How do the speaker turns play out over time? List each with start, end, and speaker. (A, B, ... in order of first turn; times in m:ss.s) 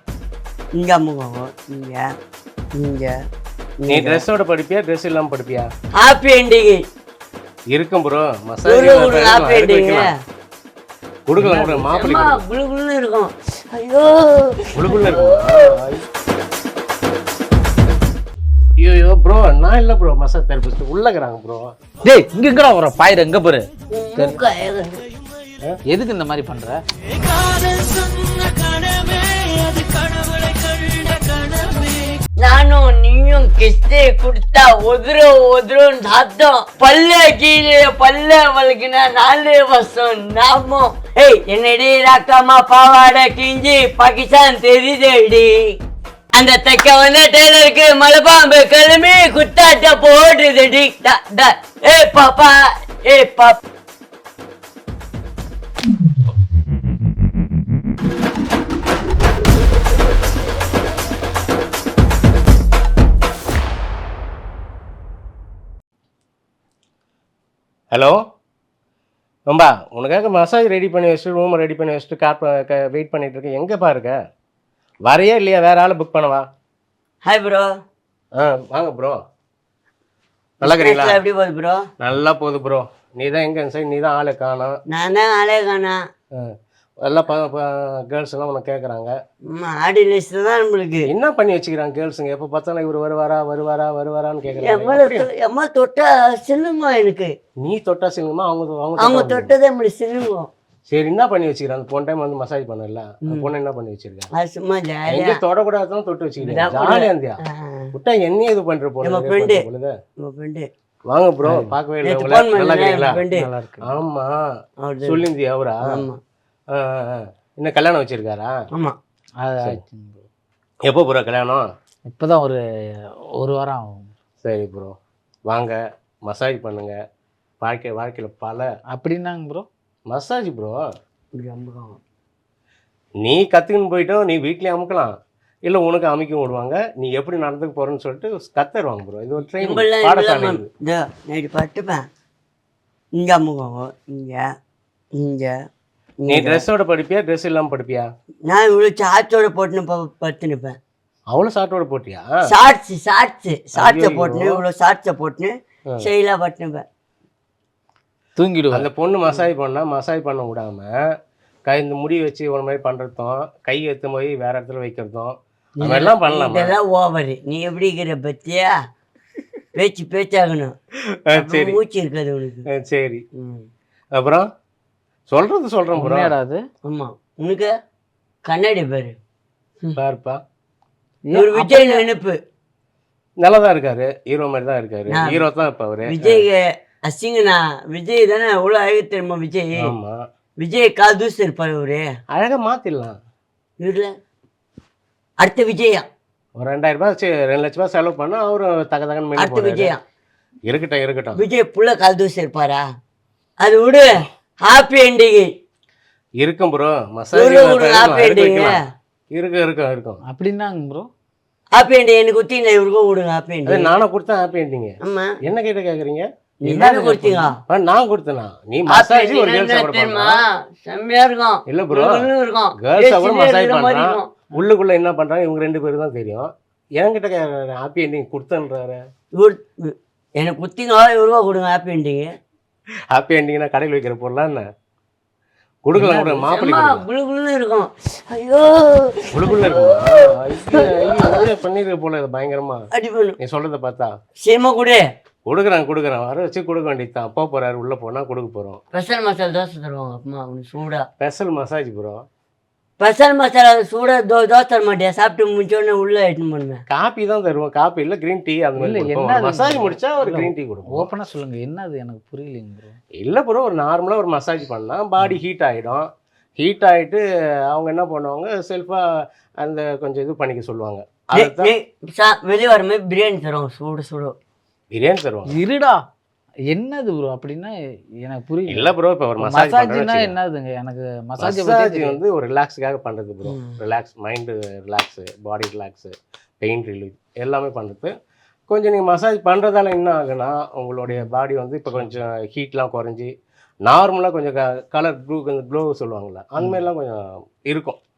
0:00.8-0:02.1 A
0:02.8-0:03.2 A
0:03.8-0:04.2 A
0:03.9-0:05.7 B
0:06.0-0:06.8 A
0:07.7-0:10.1 B
0:08.6-0:10.2 A
0:11.3-0:12.4 B
0:11.4-0:15.7 A
0:14.8-0:16.0 B
0:18.8-0:21.7 B
0:22.0-0:23.6 C
0:23.9-0:25.0 A
0:25.9-0:26.8 C
0:29.8-0:30.0 C
0:32.4-0:45.6 A
0:46.3-0:53.6 A
1:07.9-1:08.2 B
1:09.5-1:14.2 B
1:15.1-1:16.4 B
1:17.3-1:17.7 A
1:18.3-1:19.2 B
1:20.6-1:21.2 B
1:20.6-1:21.9 A
1:22.0-1:24.8 B
1:24.9-1:26.0 A
1:27.0-1:29.1 B
1:29.5-1:31.1 A
1:31.1-1:35.3 B
1:34.6-1:37.3 A
1:37.6-1:39.5 B
1:39.0-1:40.5 A
1:40.9-1:44.3 B
1:44.3-1:45.4 A
1:45.1-1:47.4 B
1:46.4-1:47.9 A
1:47.9-1:49.9 B
1:49.0-1:49.6 A
1:50.2-1:50.7 A
1:51.1-1:53.2 B
1:51.4-1:51.8 C
1:52.0-1:53.5 A
1:53.3-1:53.9 C
1:53.8-1:54.4 B
1:54.8-1:55.2 A
1:55.0-1:55.8 B
1:55.9-1:56.2 A
1:56.7-1:58.5 B
1:59.4-2:00.2 C
2:00.9-2:01.7 B
2:02.1-2:02.6 C
2:03.4-2:04.1 C
2:04.4-2:04.9 B
2:05.5-2:06.9 B
2:07.6-2:08.7 B
2:08.9-2:09.7 C
2:10.1-2:10.8 B
2:11.4-2:12.0 A
2:13.2-2:15.1 B
2:15.7-2:20.7 B
2:19.6-2:22.1 A
2:23.2-2:24.5 A
2:25.2-2:25.6 A
2:26.2-2:26.6 A
2:26.3-2:28.1 B
2:28.5-2:30.8 A
2:31.3-2:32.3 B
2:32.5-2:36.8 A
2:33.8-2:34.6 B
2:38.4-2:38.9 C
2:38.7-2:40.9 B
2:41.7-2:46.7 B
2:45.8-2:48.8 A
2:49.8-2:50.7 A
2:51.3-2:51.8 B
2:51.3-2:52.7 A
2:52.8-2:53.2 B
2:53.4-2:53.7 A
2:54.2-2:54.5 B
2:55.3-2:56.3 B
2:56.0-2:56.6 C
2:56.9-2:57.7 A
2:58.5-2:59.2 A
3:00.0-3:00.4 B
3:01.2-3:02.0 C
3:01.3-3:02.4 A
3:03.4-3:06.5 B
3:05.1-3:05.4 A
3:06.1-3:09.9 A
3:09.8-3:10.2 B
3:10.6-3:12.1 A
3:12.3-3:13.2 B
3:13.8-3:14.1 A
3:15.4-3:16.1 A
3:16.6-3:19.9 B
3:19.4-3:20.0 A
3:20.7-3:21.4 B
3:21.4-3:22.8 A
3:23.6-3:25.5 A
3:26.4-3:28.8 B
3:27.3-3:28.8 A
3:29.3-3:30.2 B
3:30.3-3:31.1 C
3:31.8-3:33.9 A
3:33.7-3:34.9 B
3:35.0-3:35.4 A
3:35.4-3:40.4 B
3:36.6-3:37.6 A
3:36.7-3:37.5 C
3:38.9-3:44.3 A
3:41.7-3:42.3 B
3:42.8-3:49.0 B
3:49.4-3:52.3 A
3:53.1-3:54.6 B
3:55.8-3:57.0 B
3:56.0-4:01.5 A
3:59.3-4:02.8 B
4:02.9-4:03.4 A
4:03.4-4:04.1 B
4:04.4-4:05.0 A
4:05.5-4:08.8 B
4:08.9-4:11.1 A
4:11.2-4:12.2 B
4:13.0-4:16.8 A
4:16.9-4:21.1 B
4:18.8-4:23.0 C
4:23.2-4:29.0 B
4:29.6-4:31.7 B
4:31.3-4:34.3 A
4:34.9-4:35.5 B
4:35.5-4:36.0 C
4:36.7-4:42.2 C
4:38.7-4:40.3 B
4:41.4-4:48.1 B
4:43.4-4:43.8 A
4:48.7-4:53.3 B
4:53.8-4:58.0 B